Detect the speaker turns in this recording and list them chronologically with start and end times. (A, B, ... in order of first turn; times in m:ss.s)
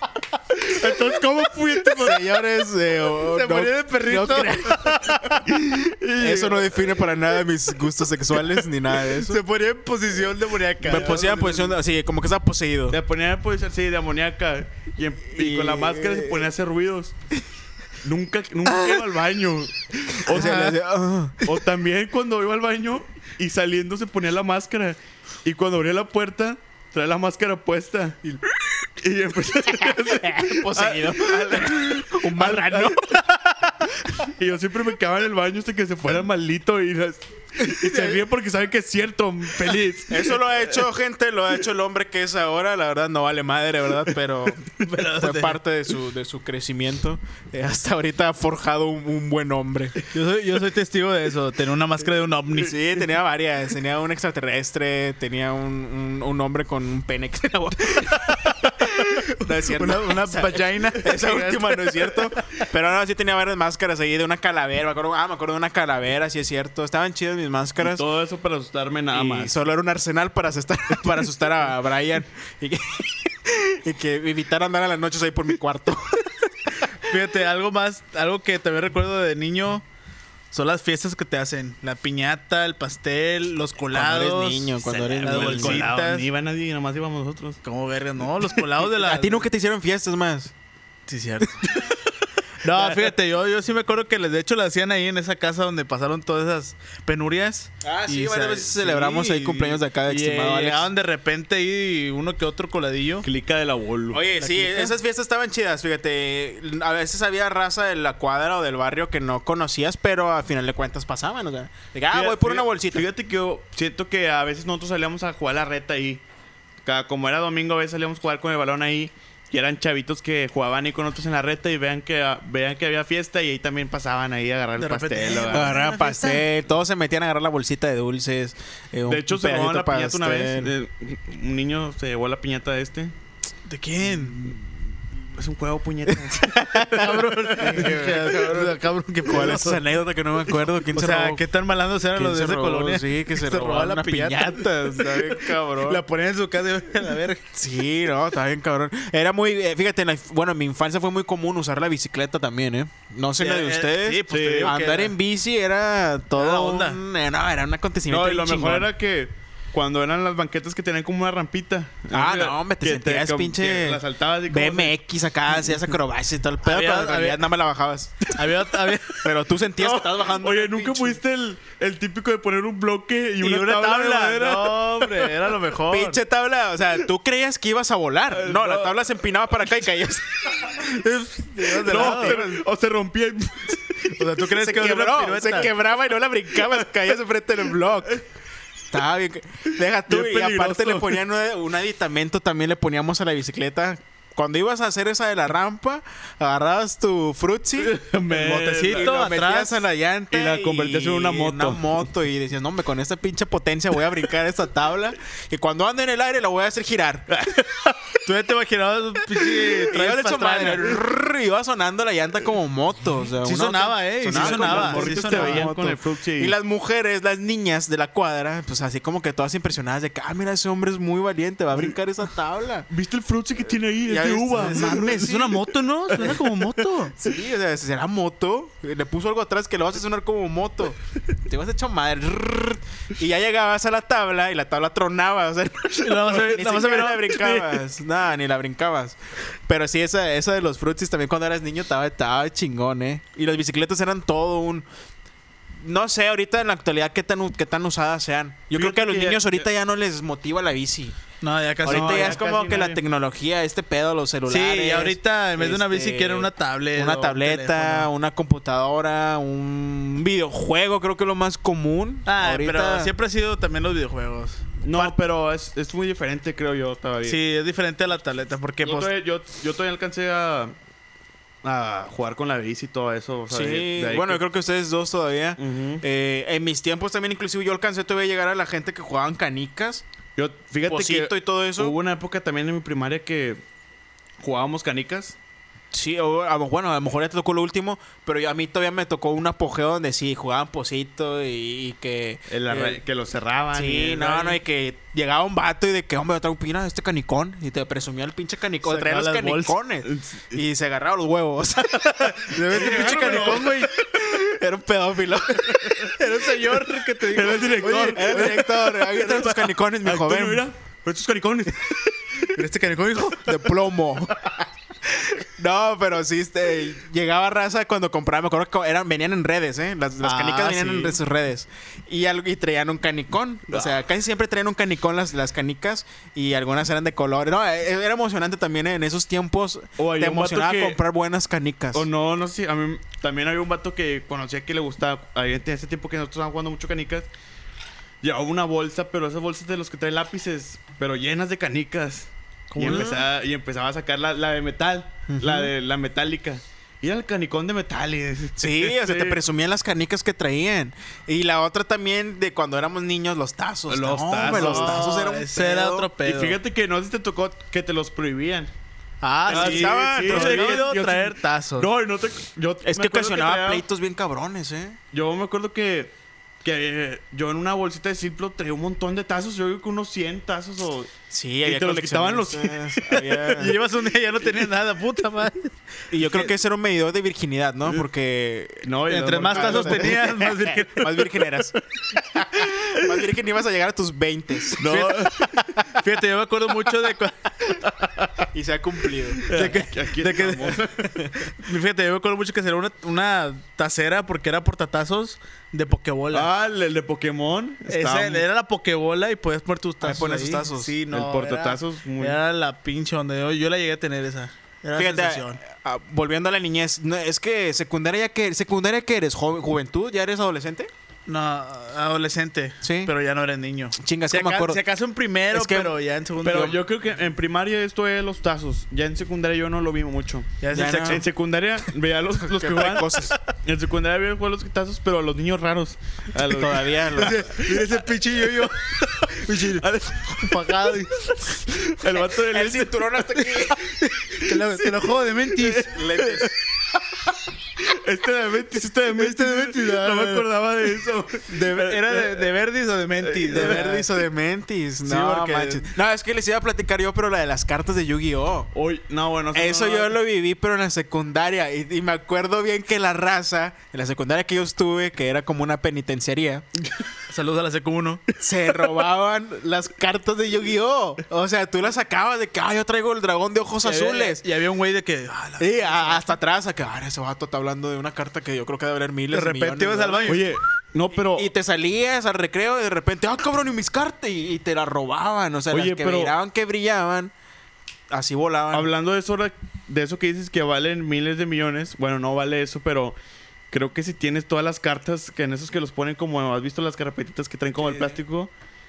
0:00.5-0:02.3 A
0:02.0-0:05.1 B
0:03.2-0:05.5 C
0:05.5-0:07.1 A
0:06.2-0:09.4 B
0:09.2-0:11.7 C
0:10.8-0:13.0 B
0:10.9-0:11.7 A
0:12.9-0:17.2 A
0:15.3-0:16.5 B
0:18.0-0:20.8 A
0:18.7-0:19.0 B
0:20.2-0:21.5 B
0:21.4-0:28.4 A
0:29.0-0:33.2 A
0:29.8-0:33.2 B
0:34.0-0:40.7 A
0:37.6-0:38.2 C
0:40.1-0:50.0 B
0:44.7-0:45.6 C
0:50.1-0:52.8 C
0:52.5-1:08.0 B
0:58.8-1:02.6 C
1:07.8-1:09.6 A
1:09.1-1:16.5 B
1:17.0-1:19.8 C
1:20.5-1:26.3 C
1:23.9-1:25.9 B
1:24.8-1:27.6 A
1:27.6-1:29.5 C
1:28.8-1:30.5 B
1:31.1-1:31.9 C
1:32.6-1:43.3 C
1:37.8-1:40.9 B
1:43.2-1:44.2 A
1:44.1-1:53.0 B
1:44.4-1:45.0 C
1:52.1-1:56.2 A
1:56.8-2:05.8 A
2:04.8-2:06.4 C
2:05.5-2:10.7 B
2:09.1-2:13.1 A
2:13.7-2:14.6 C
2:14.1-2:14.6 A
2:15.3-2:18.0 A
2:16.6-2:19.8 C
2:17.6-2:21.4 B
2:20.9-2:27.4 C
2:22.1-2:26.0 B
2:27.5-2:38.9 B
2:33.4-2:35.2 C
2:34.3-2:34.7 A
2:36.3-2:37.0 C
2:38.1-2:45.0 A
2:42.1-2:48.3 B
2:46.6-2:47.4 C
2:48.3-2:49.3 C
2:49.2-2:51.2 B
2:49.9-2:55.5 A
2:53.4-2:56.2 C
2:55.9-3:00.7 B
2:58.3-2:59.0 A
3:00.7-3:02.6 C
3:01.7-3:04.2 A
3:02.0-3:02.5 B
3:04.1-3:05.7 C
3:04.4-3:08.2 B
3:08.9-3:18.0 B
3:10.1-3:11.2 A
3:17.8-3:19.2 A
3:18.3-3:19.8 C
3:18.5-3:27.3 B
3:20.3-3:21.9 A
3:27.3-3:28.1 A
3:28.2-3:31.0 C
3:29.9-3:42.9 B
3:33.4-3:35.7 C
3:34.3-3:36.6 A
3:42.9-3:46.4 A
3:44.1-3:45.5 B
3:44.6-3:47.2 C
3:47.1-4:04.9 B
3:56.0-3:57.7 C
4:05.8-4:11.2 B
4:08.7-4:09.7 A
4:11.4-4:12.4 C
4:11.8-4:13.0 A
4:11.8-4:23.1 B
4:14.5-4:18.1 C
4:22.3-4:25.2 C
4:24.8-4:27.4 A
4:27.2-4:29.1 C
4:28.8-4:30.8 A
4:31.6-4:34.4 A
4:33.5-4:40.0 B
4:35.6-4:36.0 A
4:40.4-4:43.6 A
4:40.9-4:42.0 B
4:44.4-4:45.4 A
4:45.9-4:53.0 B
4:52.5-4:54.6 A
4:53.7-5:06.2 B
4:58.8-4:59.8 C
5:00.0-5:00.6 A
5:02.2-5:03.9 C
5:02.7-5:03.8 A
5:05.9-5:08.7 C
5:07.2-5:12.5 A
5:07.8-5:10.6 B
5:12.5-5:13.6 C
5:13.4-5:14.4 B
5:15.4-5:32.1 B
5:20.2-5:21.2 C
5:23.7-5:24.0 A
5:30.0-5:31.0 A
5:31.9-5:37.3 A
5:38.2-5:49.4 A
5:42.7-5:43.2 C
5:42.8-5:43.2 B
5:45.3-5:45.7 B
5:48.6-5:56.1 B
5:53.9-5:55.2 A
5:54.4-5:56.6 C
5:56.2-5:58.7 A
5:59.2-6:01.9 C
5:59.5-6:00.9 B
5:59.5-6:03.8 A
6:02.8-6:05.0 B
6:05.1-6:11.1 A
6:11.3-6:13.8 B
6:11.6-6:13.4 A
6:13.5-6:15.7 C
6:16.1-6:18.9 B
6:16.2-6:16.5 A
6:18.8-6:20.2 A
6:19.1-6:21.3 C
6:19.5-6:25.8 B
6:24.8-6:25.5 A
6:25.8-6:27.8 C
6:28.5-6:29.8 B
6:29.4-6:31.0 A
6:29.5-6:30.9 C
6:31.4-6:36.5 C
6:36.3-6:38.4 A
6:37.9-6:45.6 C
6:40.0-6:41.0 B
6:41.1-6:42.4 A
6:45.0-6:50.9 B
6:51.3-6:56.8 C
6:52.8-6:53.1 B
6:54.0-6:54.8 B
6:55.5-6:55.9 B
6:56.4-7:07.9 A
7:00.6-7:01.2 C
7:00.7-7:01.2 B
7:02.4-7:03.4 B
7:06.4-7:07.4 B
7:07.2-7:09.8 C
7:09.4-7:11.0 A
7:10.4-7:11.6 C
7:11.7-7:13.7 A
7:12.3-7:13.8 B
7:13.8-7:16.0 C
7:14.8-7:16.5 A
7:15.8-7:16.5 B
7:17.8-7:22.5 A
7:19.1-7:20.5 C
7:21.5-7:24.1 C
7:23.2-7:23.9 A
7:23.5-7:28.7 B
7:25.0-7:25.9 C
7:28.7-7:30.2 A
7:29.5-7:36.6 B
7:37.3-7:38.2 C
7:38.4-7:44.4 B
7:43.8-7:46.3 C
7:45.6-7:50.4 B
7:49.3-7:50.5 C
7:50.2-7:51.5 A
7:51.3-7:57.3 B
7:55.7-7:56.3 A
7:58.1-7:58.9 B
7:58.7-8:03.2 A
8:03.7-8:08.5 A
8:07.8-8:08.2 B